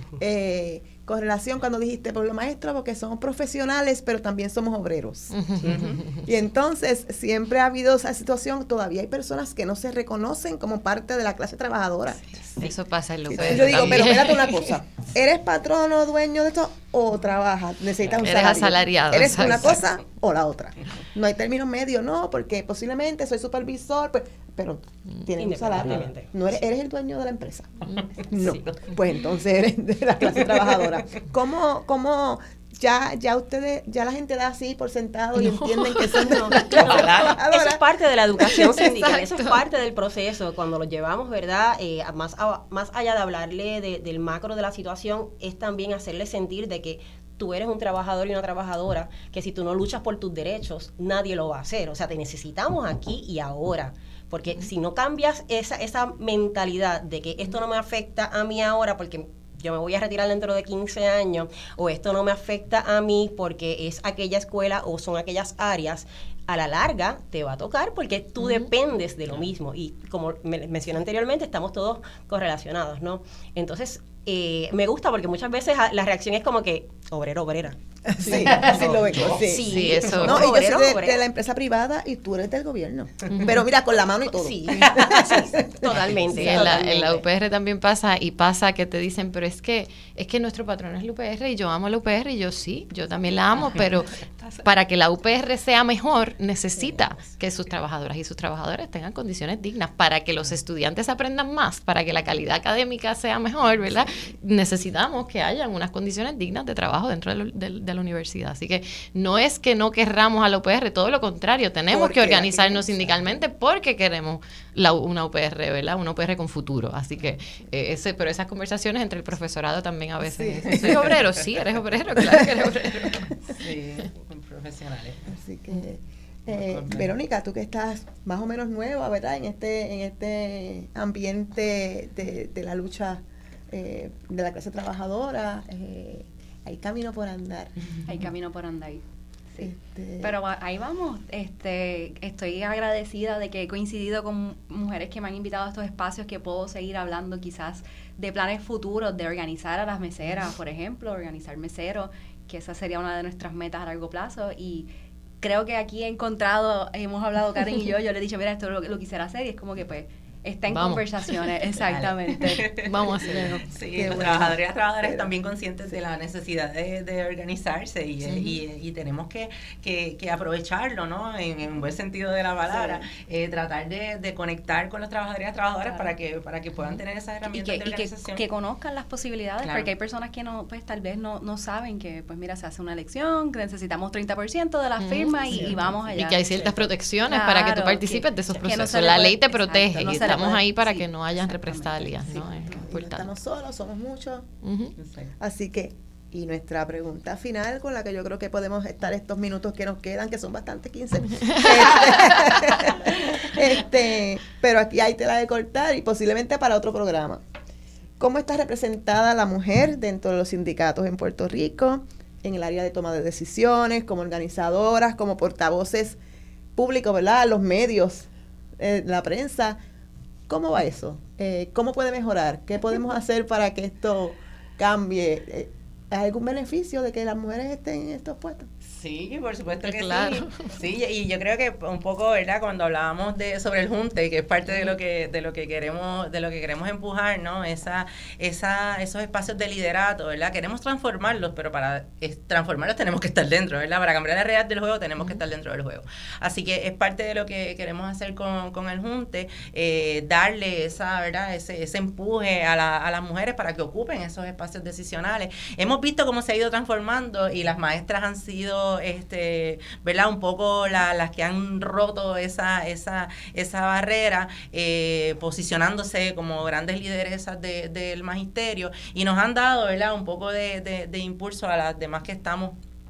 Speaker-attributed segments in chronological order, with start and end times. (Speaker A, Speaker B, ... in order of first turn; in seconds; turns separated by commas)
Speaker A: 0.2-12.4, Speaker B: 5.3-6.2, Speaker C: 5.6-6.0, Speaker B: 12.4-14.7, Speaker A: 13.3-37.8, Speaker C: 13.3-14.1, Speaker B: 18.1-19.8, Speaker D: 25.4-26.3, Speaker C: 27.9-28.9, Speaker C: 30.5-30.8, Speaker B: 35.4-37.1, Speaker D: 36.3-36.5, Speaker C: 36.6-37.4, Speaker D: 37.5-81.2, Speaker A: 38.4-39.1, Speaker B: 38.4-39.6, Speaker A: 78.1-86.0, Speaker C: 78.2-79.5, Speaker B: 79.7-80.5, Speaker B: 83.3-83.6, Speaker D: 84.3-87.2, Speaker C: 84.8-85.2, Speaker C: 85.9-86.5, Speaker B: 86.3-123.3, Speaker A: 111.9-113.1, Speaker A: 120.2-121.0, Speaker C: 120.7-121.1, Speaker C: 123.4-125.3, Speaker A: 125.3-137.7, Speaker C: 126.5-127.1, Speaker E: 138.0-139.0, Speaker E: 139.5-154.9, Speaker A: 139.6-140.3, Speaker E: 155.4-162.7, Speaker B: 160.7-161.0, Speaker C: 161.8-178.4, Speaker B: 162.8-163.7, Speaker A: 163.9-165.3, Speaker B: 168.2-168.6, Speaker A: 172.7-173.1, Speaker E: 177.5-186.4, Speaker C: 179.6-179.9, Speaker B: 185.0-193.3, Speaker D: 185.5-185.9, Speaker D: 186.5-186.9, Speaker E: 187.3-192.8, Speaker A: 192.7-194.5, Speaker B: 194.6-194.9, Speaker C: 195.0-195.3, Speaker A: 195.4-207.4, Speaker A: 208.2-216.2, Speaker A: 216.8-219.8, Speaker A: 220.5-228.7, Speaker C: 228.8-272.8, Speaker B: 229.8-230.7